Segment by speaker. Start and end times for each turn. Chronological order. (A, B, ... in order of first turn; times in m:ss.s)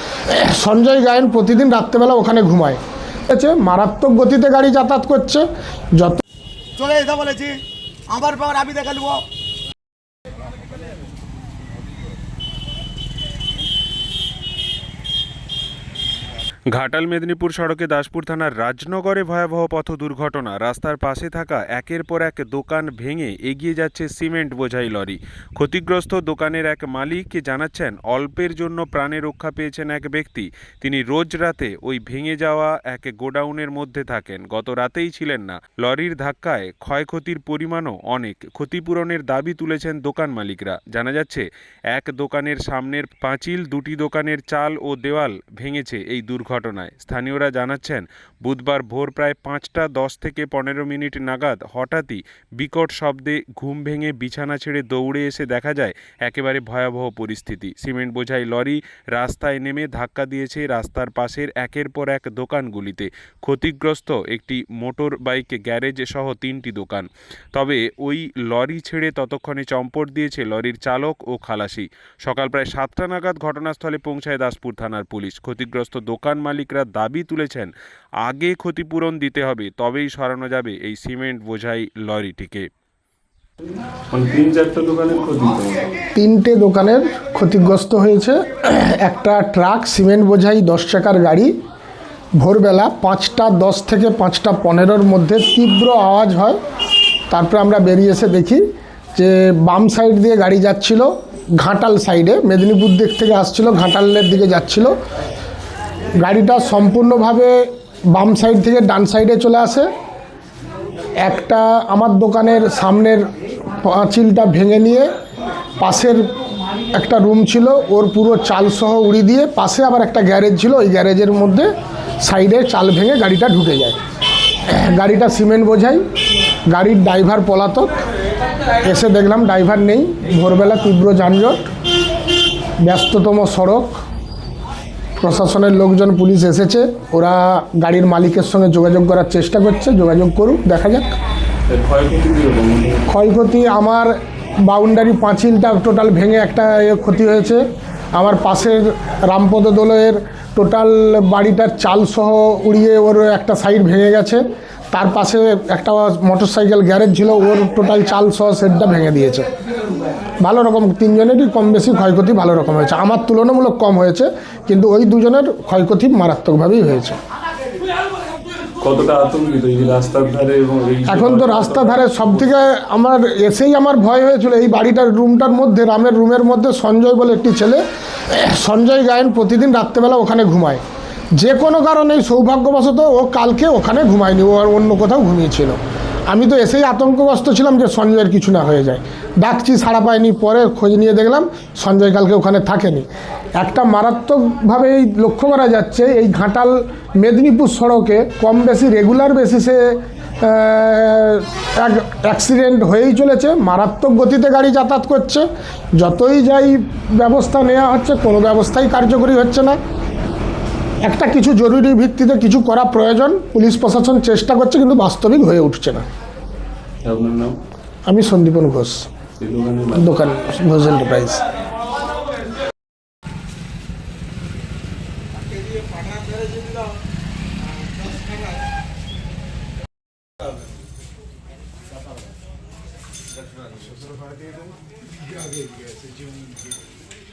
0:00.3-0:06.2 A
0:06.8-0:07.5 B
0:08.1-0:09.2 B
0:16.7-1:17.7 C
1:18.2-1:22.7 C
1:24.1-1:25.9 C
1:26.1-1:31.5 A
1:32.4-1:36.6 A
1:37.3-1:38.6 A
1:39.2-1:44.9 A
1:46.2-1:49.9 A
1:51.2-1:53.3 A
1:53.8-1:55.1 A
1:55.8-1:56.2 A
1:56.9-2:01.7 A
2:02.2-2:04.0 A
2:04.7-2:06.0 A
2:06.7-2:07.9 A
2:08.8-2:11.7 A
2:12.8-2:14.0 A
2:15.2-2:21.1 A
2:21.7-2:23.1 C
2:23.1-2:24.1 A
2:24.6-2:39.4 A
2:40.4-2:47.2 A
2:48.8-2:52.6 C
2:51.1-3:00.8 A
3:01.4-3:05.8 A
3:06.3-3:29.8 A
3:31.0-3:36.0 A
3:37.0-3:37.6 C
3:38.1-3:39.1 A
3:39.4-3:40.1 C
3:39.9-3:41.4 A
3:45.5-3:46.8 B